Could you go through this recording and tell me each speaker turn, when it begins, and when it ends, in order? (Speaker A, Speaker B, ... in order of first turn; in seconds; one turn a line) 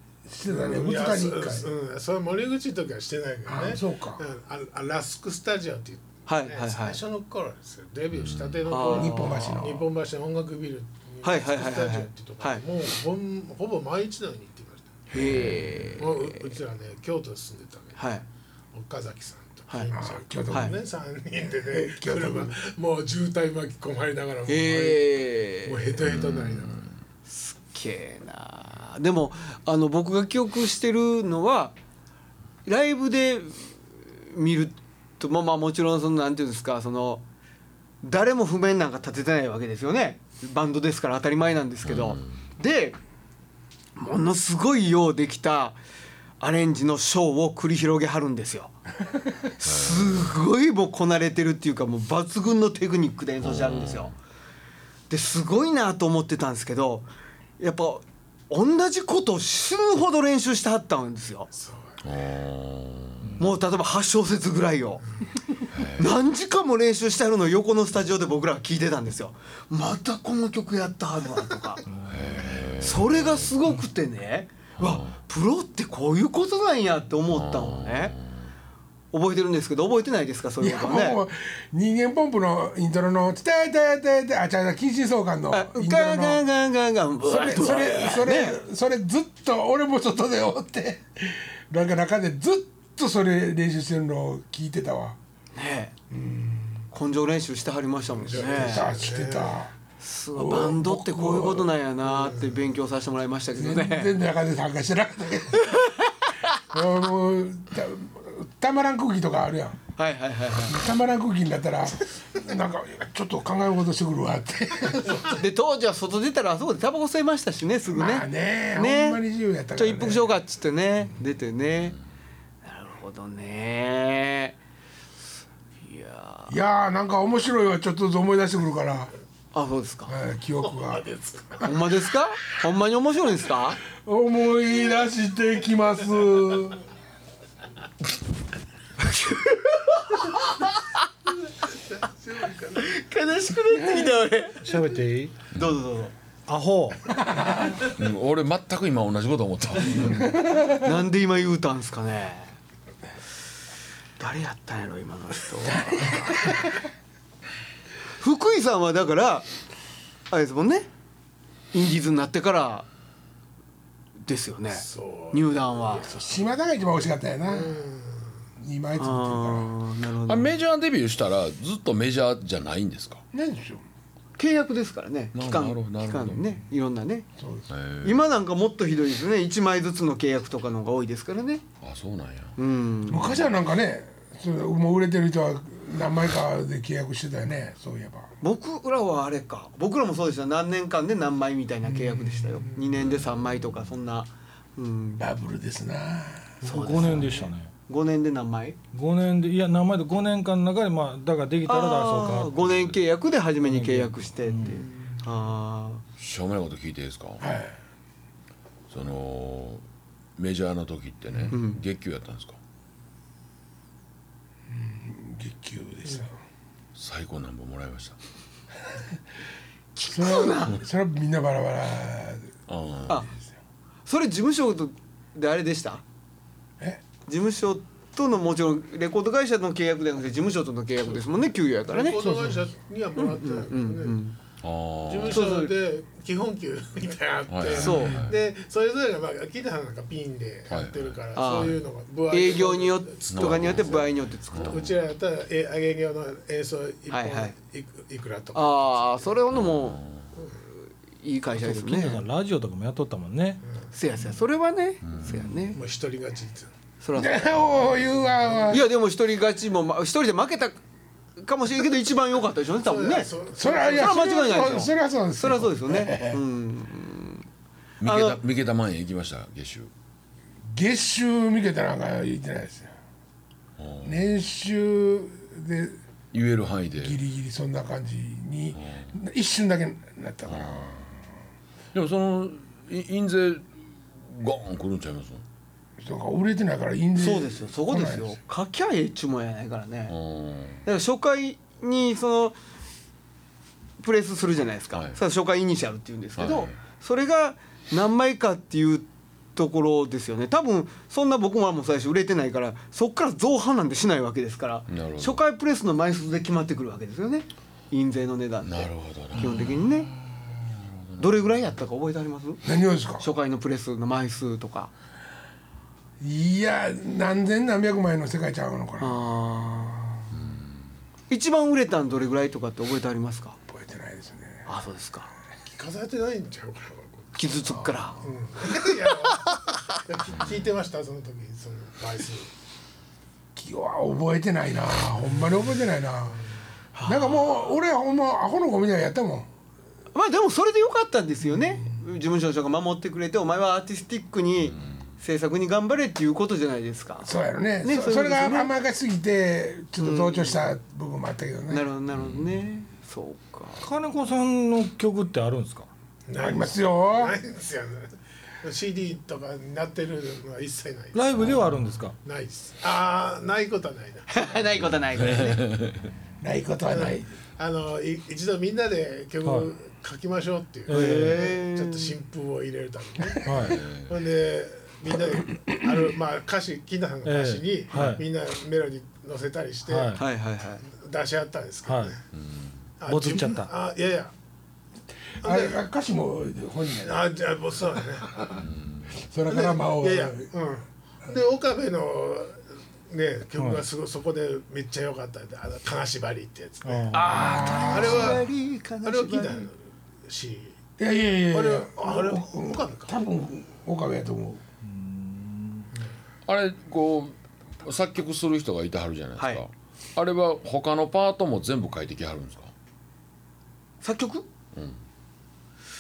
Speaker A: 0.3-1.7
Speaker B: 0.5-15.4
Speaker A: 3.5-4.2
Speaker C: 6.3-7.0
Speaker D: 8.1-8.6
Speaker C: 8.7-9.6
Speaker A: 8.8-9.9
Speaker C: 11.2-12.6
Speaker C: 15.1-16.5
Speaker A: 15.1-15.9
Speaker B: 16.0-18.0
Speaker C: 18.0-18.2
Speaker B: 18.7-26.9
Speaker C: 19.7-20.0
Speaker A: 19.9-20.8
Speaker C: 20.5-20.8
Speaker A: 21.7-22.6
Speaker C: 24.5-26.0
Speaker D: 26.1-26.8
Speaker C: 27.3-31.8
Speaker C: 32.7-37.2
Speaker C: 38.0-43.0
Speaker D: 41.9-42.2
Speaker C: 44.0-45.8
Speaker C: 46.4-48.8
Speaker C: 49.5-54.1
Speaker D: 49.6-50.4
Speaker D: 53.4-54.1
Speaker C: 55.1-57.1
Speaker C: 57.6-61.5
Speaker B: 61.5-62.0
Speaker D: 62.0-63.4
Speaker C: 63.4-65.0
Speaker D: 65.7-66.1
Speaker C: 66.0-71.8
Speaker E: 71.9-72.2
Speaker D: 72.1-73.5
Speaker C: 72.8-78.2
Speaker D: 74.8-75.1
Speaker D: 77.3-78.2
Speaker C: 79.1-81.2
Speaker A: 80.6-86.5
Speaker C: 85.5-88.6
Speaker A: 87.2-95.2
Speaker C: 95.5-95.9
Speaker A: 96.1-96.8
Speaker C: 96.9-98.9
Speaker B: 98.2-99.5
Speaker A: 98.3-99.7
Speaker C: 100.0-104.1
Speaker A: 100.3-101.7
Speaker B: 102.1-102.5
Speaker A: 103.5-105.7
Speaker C: 105.6-106.6
Speaker A: 106.7-109.8
Speaker C: 110.0-110.8
Speaker A: 110.7-115.4
Speaker C: 115.3-119.2
Speaker A: 117.9-120.3
Speaker C: 119.8-122.0
Speaker C: 122.7-124.6
Speaker C: 125.8-126.5
Speaker A: 126.5-129.1
Speaker C: 129.5-130.2
Speaker A: 130.1-131.1
Speaker B: 130.6-131.7
Speaker C: 131.6-133.8
Speaker A: 134.0-136.8
Speaker C: 139.0-140.7
Speaker B: 141.9-142.9
Speaker C: 142.7-144.7
Speaker A: 143.7-144.1
Speaker E: 144.6-145.3
Speaker C: 145.6-146.1
Speaker E: 146.5-147.1
Speaker A: 147.1-147.8
Speaker D: 147.8-150.2
Speaker C: 149.9-152.5
Speaker A: 150.2-150.8
Speaker C: 154.2-156.6
Speaker A: 155.7-156.6
Speaker C: 158.2-159.5
Speaker C: 160.3-160.9
Speaker C: 161.7-162.9
Speaker C: 164.3-166.1
Speaker B: 164.7-166.3
Speaker A: 166.1-167.8
Speaker B: 167.4-168.4
Speaker A: 168.6-169.7
Speaker C: 169.0-170.6
Speaker D: 170.3-173.2
Speaker A: 173.3-173.8
Speaker C: 174.4-177.3
Speaker D: 175.3-176.6
Speaker A: 177.4-177.7
Speaker D: 177.7-178.2
Speaker C: 178.0-181.6
Speaker D: 181.8-182.6
Speaker C: 182.6-183.4
Speaker A: 183.1-188.3
Speaker C: 188.4-195.3
Speaker A: 191.8-192.7
Speaker D: 192.9-193.7
Speaker A: 195.2-196.6
Speaker E: 196.6-197.7
Speaker C: 196.6-198.8
Speaker E: 198.9-203.0
Speaker C: 201.7-206.0
Speaker E: 203.6-204.8
Speaker D: 206.2-207.4
Speaker A: 207.4-207.8
Speaker D: 208.9-209.8
Speaker D: 210.4-212.6
Speaker C: 211.5-211.8
Speaker A: 214.7-216.4
Speaker D: 216.9-218.2
Speaker C: 220.0-220.8
Speaker A: 220.1-223.4
Speaker D: 222.7-223.2
Speaker C: 224.1-226.0
Speaker C: 227.3-232.2
Speaker B: 231.9-234.2
Speaker A: 232.1-232.7
Speaker C: 233.2-234.4
Speaker D: 234.6-235.5
Speaker B: 235.1-249.4
Speaker C: 235.3-235.7
Speaker D: 237.5-238.4
Speaker C: 237.7-238.3
Speaker D: 240.7-241.7
Speaker C: 241.3-241.8
Speaker C: 242.3-244.8
Speaker D: 243.3-245.0
Speaker C: 247.1-247.5
Speaker C: 248.5-250.0
Speaker D: 249.5-250.3
Speaker C: 250.8-252.2
Speaker E: 251.6-253.6
Speaker C: 253.9-255.8
Speaker D: 255.1-255.6
Speaker B: 255.7-256.7
Speaker C: 257.0-257.4
Speaker A: 257.1-258.9
Speaker C: 258.7-260.8
Speaker C: 261.4-263.3
Speaker B: 262.8-264.2
Speaker A: 263.5-266.4
Speaker C: 263.9-267.5
Speaker D: 268.0-269.9
Speaker C: 268.0-268.4
Speaker A: 270.6-272.9
Speaker D: 273.8-274.1
Speaker A: 274.0-276.0
Speaker D: 276.3-277.2
Speaker A: 277.0-281.2
Speaker D: 278.8-279.1
Speaker D: 280.5-281.0
Speaker D: 281.9-283.6
Speaker D: 284.2-285.4
Speaker A: 286.0-288.4
Speaker C: 287.2-290.1
Speaker D: 290.1-290.8
Speaker C: 290.9-292.6
Speaker C: 294.0-310.1
Speaker D: 294.9-295.2
Speaker D: 296.4-296.8
Speaker D: 304.9-305.4
Speaker D: 308.6-310.1
Speaker D: 310.8-311.4
Speaker C: 311.2-312.6
Speaker A: 312.6-313.2
Speaker C: 313.2-314.9
Speaker A: 316.2-320.3
Speaker C: 319.0-320.0
Speaker D: 320.3-320.7
Speaker C: 321.3-323.6
Speaker A: 323.7-324.7
Speaker C: 324.7-325.3
Speaker B: 325.7-327.3
Speaker C: 327.4-328.3
Speaker A: 327.6-328.2
Speaker B: 328.2-332.5
Speaker D: 330.3-330.6
Speaker A: 333.6-336.4
Speaker C: 336.9-337.7
Speaker A: 337.1-339.5
Speaker C: 340.1-347.3
Speaker A: 341.7-342.0
Speaker A: 347.2-351.9
Speaker C: 347.8-348.7
Speaker C: 350.0-350.7
Speaker C: 351.7-353.9
Speaker D: 352.1-352.6
Speaker E: 353.8-355.9
Speaker B: 356.3-358.1
Speaker A: 356.4-357.4
Speaker B: 358.6-361.6
Speaker E: 361.1-362.2
Speaker B: 362.2-364.6
Speaker C: 364.3-365.7
Speaker D: 365.1-366.0
Speaker A: 366.4-367.3
Speaker B: 366.9-380.2
Speaker E: 369.4-369.7
Speaker E: 370.9-371.4
Speaker C: 370.9-372.1
Speaker E: 373.4-373.9
Speaker D: 373.7-374.1
Speaker A: 375.3-376.0
Speaker E: 377.2-378.3
Speaker E: 379.9-380.2
Speaker C: 380.1-380.8
Speaker B: 380.9-382.2
Speaker E: 381.9-382.2
Speaker D: 382.3-382.8
Speaker B: 383.0-384.3
Speaker E: 383.1-383.7
Speaker A: 385.4-387.3
Speaker B: 385.4-385.8
Speaker B: 387.0-388.4
Speaker A: 388.2-388.6
Speaker D: 388.6-389.1
Speaker A: 389.2-390.5
Speaker B: 389.5-397.2
Speaker E: 393.6-393.9
Speaker E: 396.9-397.7
Speaker C: 397.1-399.7
Speaker A: 397.1-398.4
Speaker B: 397.9-398.5
Speaker B: 399.0-400.8
Speaker A: 401.0-404.6
Speaker B: 401.5-403.1
Speaker E: 404.8-405.9
Speaker D: 406.5-412.7
Speaker C: 409.4-409.6
Speaker C: 414.0-414.5